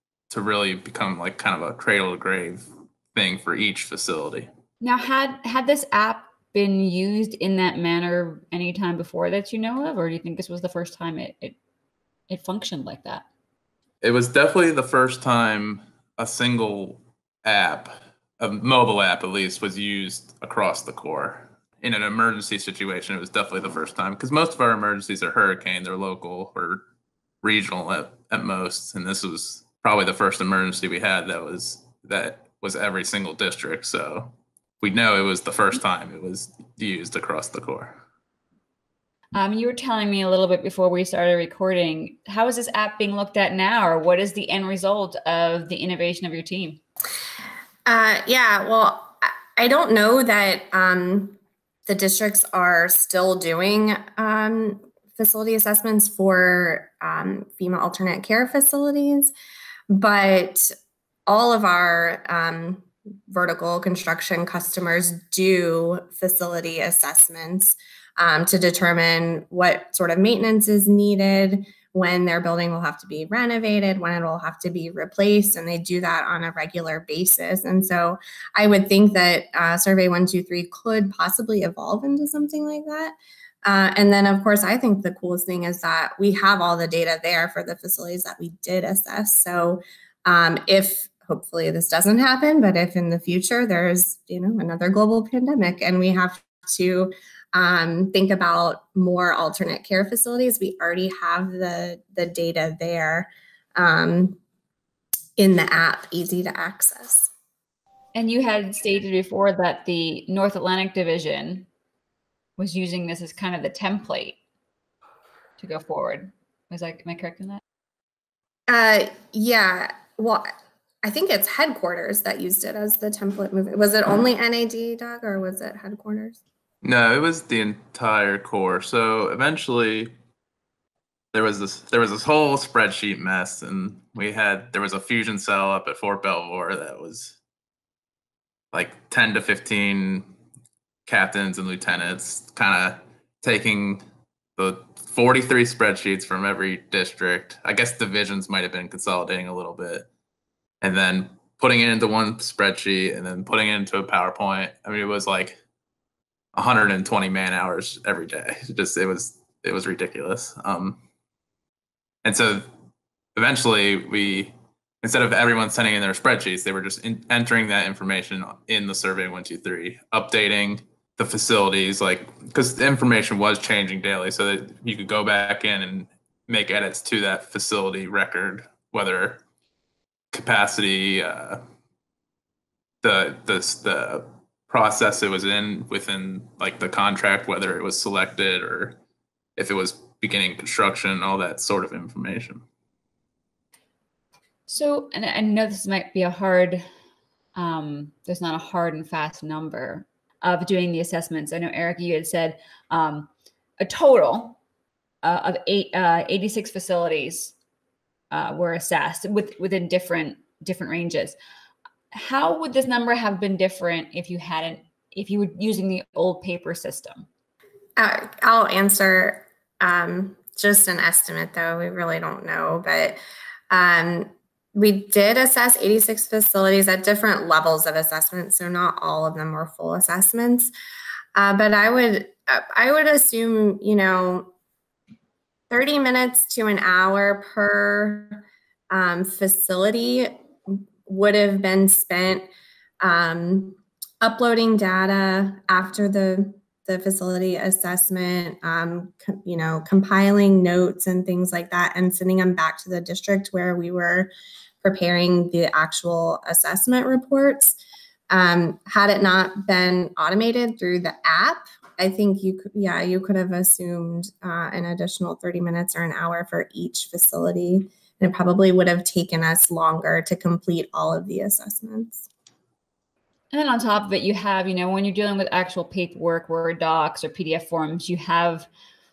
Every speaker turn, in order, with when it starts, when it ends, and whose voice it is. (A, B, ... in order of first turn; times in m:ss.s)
0:00.3-0:04.5 A
0:04.8-0:11.6 B
0:12.3-0:13.3 B
0:14.0-0:26.8 A
0:27.4-0:38.0 A
0:39.4-0:46.8 B
0:47.9-0:59.3 C
0:59.9-1:00.7 C
1:01.3-1:44.4 C
1:45.4-1:47.3 C
1:48.2-1:51.7 B
1:52.6-1:54.4 B
1:55.6-1:57.6 B
1:58.7-2:00.5 C
2:01.0-2:06.4 C
2:06.8-2:10.1 A
2:11.3-2:17.4 A
2:18.7-2:20.3 A
2:21.1-2:24.0 A
2:24.6-2:30.1 A
2:30.8-2:35.6 A
2:36.6-2:41.0 A
2:42.2-2:42.7 A
2:43.4-2:59.4 A
3:00.3-3:01.6 A
3:03.0-3:09.0 A
3:09.6-3:12.6 A
3:14.7-3:16.9 B
3:17.6-3:24.6 B
3:25.2-3:27.5 B
3:28.3-3:31.4 B
3:32.1-3:37.3 B
3:38.0-3:50.7 C
3:51.4-3:54.5 C
3:55.7-4:02.5 C
4:03.0-4:14.3 C
4:14.8-4:17.8 C
4:18.3-4:32.3 C
4:33.5-4:38.7 B